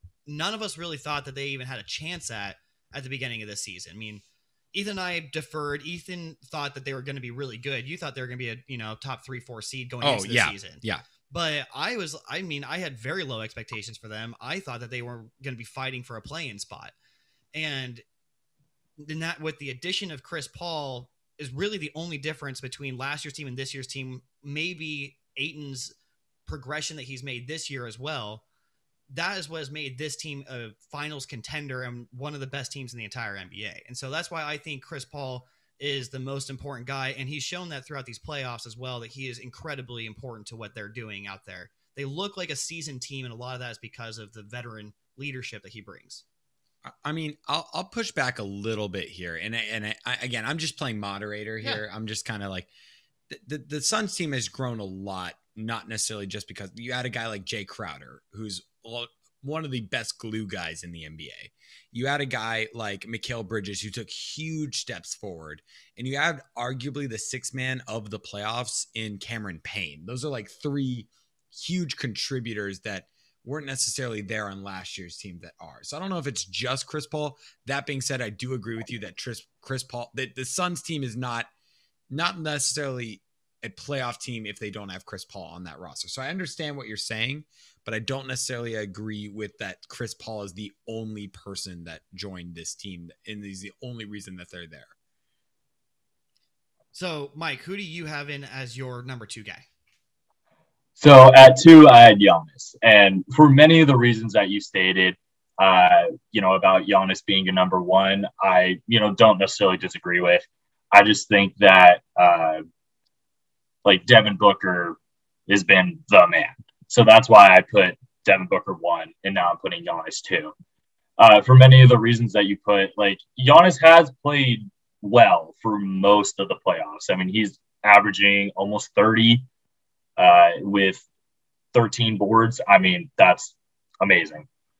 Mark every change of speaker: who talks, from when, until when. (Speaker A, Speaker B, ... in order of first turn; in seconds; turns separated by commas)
Speaker A: 0.3-16.9, Speaker B: 10.0-11.0, Speaker A: 17.5-18.0, Speaker A: 19.0-25.9, Speaker A: 26.5-28.4, Speaker A: 29.1-46.2, Speaker B: 46.9-52.7, Speaker B: 53.3-81.5, Speaker B: 82.1-94.9, Speaker A: 96.9-99.6, Speaker C: 101.0-112.6, Speaker C: 113.8-120.5, Speaker C: 121.2-129.5, Speaker C: 130.2-131.0, Speaker C: 131.7-134.5